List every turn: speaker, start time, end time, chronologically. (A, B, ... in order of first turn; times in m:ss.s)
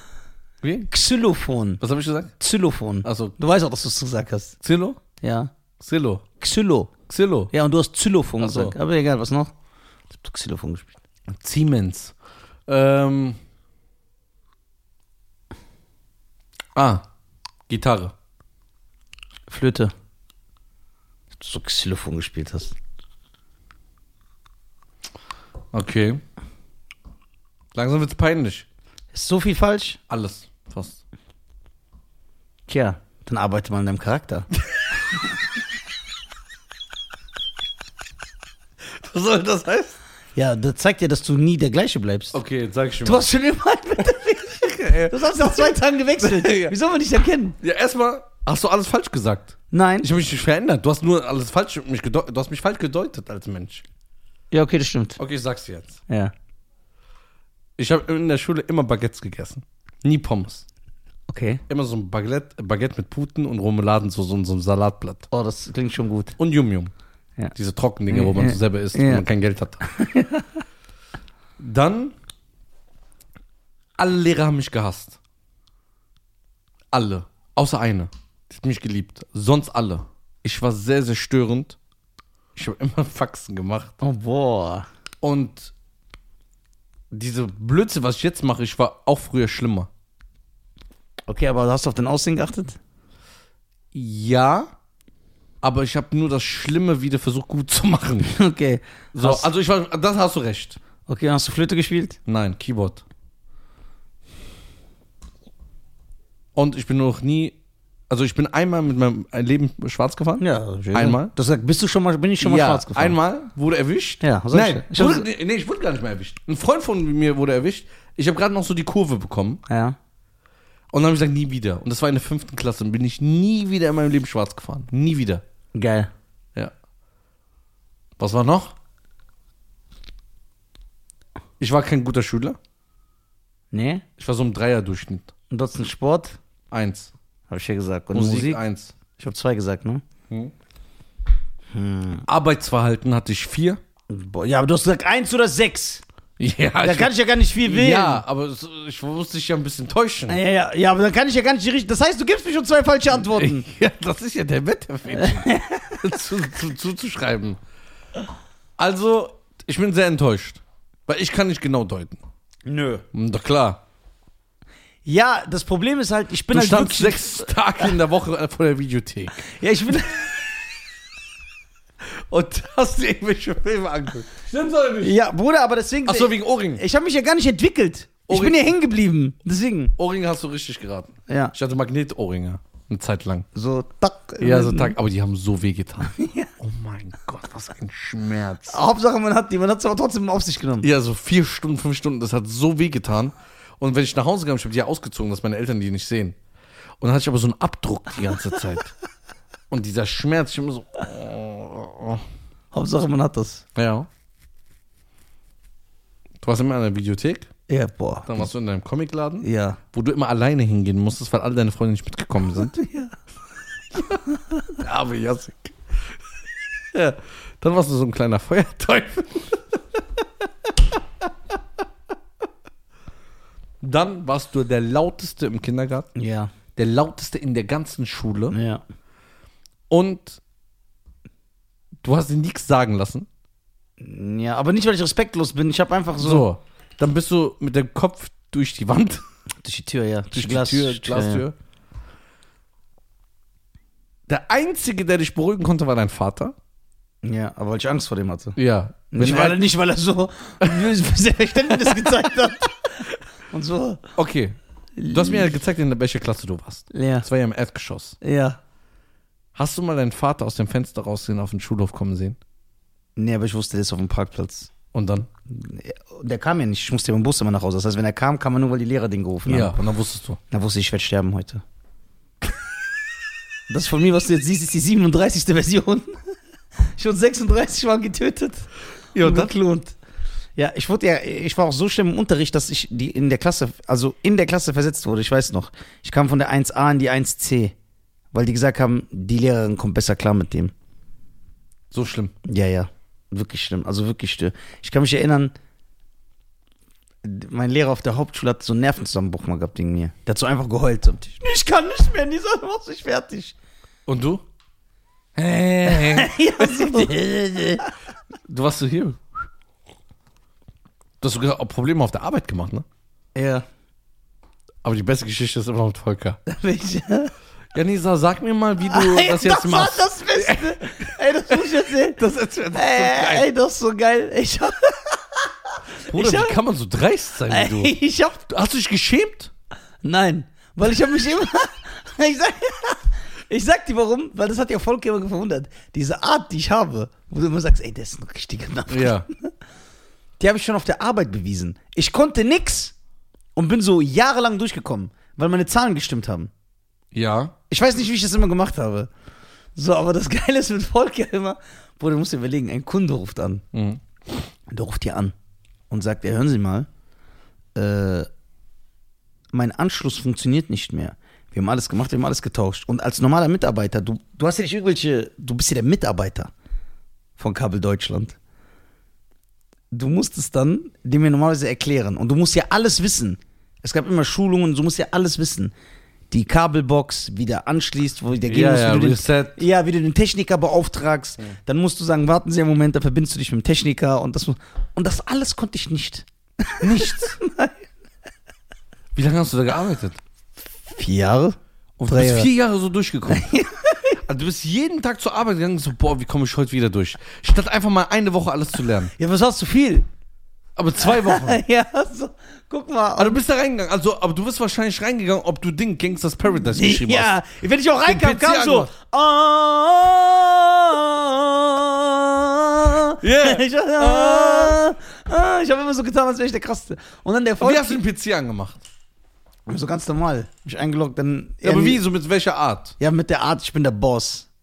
0:00.6-0:00.9 A
0:00.9-0:01.8 B
0:01.8-0:02.3 A
0:02.4-0:04.6 B
0:03.0-0:03.4 A
0:04.6-0:05.0 A
0:05.2-0:05.5 B
0:05.8-0:06.2 A
0:06.4-0:06.9 B
0:07.1-0:07.5 A
0:07.5-0:09.5 B
0:08.4-0:08.8 A
0:10.1-0:10.9 B
0:11.3-0:12.2 A
0:12.7-0:13.4 A
0:16.8-0:17.0 A
0:17.7-0:18.1 A
0:19.5-0:19.9 B
0:21.4-0:22.8 B
0:25.7-0:26.2 A
0:27.8-0:28.6 A
0:29.1-0:30.0 B
0:30.1-0:31.0 A
0:32.7-0:34.5 B
0:38.9-0:40.0 A
0:40.4-0:42.4 B
0:42.3-0:43.2 A
0:43.0-0:47.6 B
0:44.4-0:46.7 A
0:47.6-0:53.8 A
0:49.7-0:50.1 B
0:54.5-0:55.2 B
0:55.2-0:56.0 A
0:57.8-1:00.6 A
1:01.3-1:01.6 B
1:01.7-1:05.3 A
1:05.3-1:06.4 B
1:06.4-1:06.9 A
1:07.6-1:09.8 A
1:08.1-1:09.2 B
1:09.8-1:10.5 B
1:11.6-1:12.2 A
1:14.0-1:15.2 A
1:16.9-1:21.8 A
1:22.6-1:24.0 A
1:24.0-1:24.9 B
1:25.2-1:25.7 A
1:27.1-1:29.9 A
1:31.3-1:32.8 B
1:33.9-1:34.7 A
1:35.6-1:38.3 A
1:38.2-1:39.5 B
1:39.2-1:40.8 A
1:41.1-1:42.2 B
1:42.3-1:43.0 A
1:46.6-1:47.6 A
1:48.1-1:51.3 A
1:50.4-1:53.2 B
1:52.4-1:59.6 A
1:54.2-1:55.3 B
1:59.7-2:00.0 B
2:00.9-2:05.4 A
2:05.8-2:06.1 B
2:08.2-2:08.8 A
2:11.6-2:12.6 A
2:13.7-2:14.0 B
2:14.2-2:15.3 A
2:15.5-2:16.4 B
2:16.7-2:17.1 A
2:17.5-2:18.6 B
2:18.1-2:18.9 A
2:19.1-2:20.0 B
2:21.7-2:22.3 B
2:22.3-2:23.8 A
2:24.1-2:26.0 B
2:26.4-2:30.4 A
2:26.8-2:28.2 B
2:30.3-2:33.7 B
2:33.2-2:37.6 A
2:35.1-2:36.0 B
2:38.8-2:42.2 A
2:42.6-2:43.0 B
2:43.1-2:43.8 A
2:45.0-2:47.9 B
2:46.5-2:49.5 A
2:49.4-2:50.3 B
2:52.0-2:55.1 A
2:55.0-3:00.0 B
2:56.1-2:56.8 A
2:58.3-2:58.6 A
3:00.0-3:03.5 A
3:01.3-3:01.5 B
3:03.5-3:05.0 B
3:04.4-3:08.8 A
3:06.0-3:06.5 B
3:08.7-3:10.9 B
3:10.8-3:16.4 A
3:17.0-3:18.9 A
3:19.7-3:22.2 A
3:22.7-3:23.6 B
3:23.8-3:24.1 A
3:26.4-3:27.5 A
3:27.7-3:28.5 B
3:28.3-3:32.8 A
3:29.4-3:29.8 B
3:32.6-3:33.2 B
3:34.7-3:35.8 A
3:36.9-3:39.8 A
3:43.8-3:46.1 A
3:46.2-3:46.5 B
3:46.8-3:48.6 A
3:48.5-3:48.8 B
3:49.9-3:50.4 A
3:52.0-3:53.3 A
3:54.0-3:56.5 B
3:56.2-3:59.2 A
3:59.6-4:01.4 B
4:00.3-4:01.6 A
4:04.3-4:06.6 A
4:07.2-4:08.6 B
4:08.6-4:09.6 A
4:09.1-4:14.1 B
4:10.7-4:10.9 A
4:11.7-4:12.3 A
4:14.2-4:14.6 A
4:15.0-4:15.6 B
4:15.1-4:18.2 A
4:16.9-4:17.3 B
4:18.2-4:18.6 B
4:19.6-4:22.4 A
4:23.2-4:24.7 B
4:24.9-4:25.3 A
4:25.5-4:29.8 B
4:29.5-4:30.4 A
4:30.5-4:31.6 B
4:33.7-4:36.1 B
4:37.0-4:38.7 B
4:39.1-4:39.5 A
4:39.2-4:40.0 B
4:40.6-4:47.7 B
4:48.3-4:50.7 B
4:51.9-4:52.3 A
4:52.4-4:55.5 B
4:57.2-5:03.6 B
5:04.1-5:04.4 A
5:05.4-5:07.8 A
5:05.9-5:07.9 B
5:08.5-5:09.2 A
5:11.2-5:12.8 A
5:13.4-5:13.6 B
5:14.8-5:16.4 A
5:16.5-5:17.3 B
5:17.7-5:23.5 A
5:18.9-5:22.2 B
5:22.7-5:26.6 B
5:26.1-5:27.9 A
5:27.5-5:28.5 B
5:28.5-5:29.5 A
5:30.0-5:39.5 B
5:38.9-5:39.3 A
5:40.4-5:42.9 B
5:43.6-5:46.5 B
5:47.1-5:47.6 A
5:47.7-5:49.1 B
5:49.8-5:53.6 B
5:53.7-5:54.0 A
5:54.7-5:55.3 B
5:55.9-5:56.9 B
5:57.8-5:58.3 B
5:59.5-6:06.5 B
6:07.4-6:08.4 B
6:09.9-6:15.7 B
6:16.3-6:27.8 B
6:18.5-6:19.6 A
6:26.8-6:27.4 A
6:29.2-6:30.2 A
6:30.9-6:32.5 B
6:32.0-6:33.5 A
6:33.3-6:34.2 B
6:34.2-6:39.1 A
6:39.2-6:40.1 B
6:40.8-6:41.6 A
6:41.0-6:43.4 B
6:43.2-6:47.3 A
6:46.6-6:58.0 B
6:48.0-6:48.9 A
6:53.2-6:54.8 A
6:57.6-6:58.8 A
6:59.7-7:02.0 B
7:01.6-7:03.0 A
7:03.0-7:04.5 B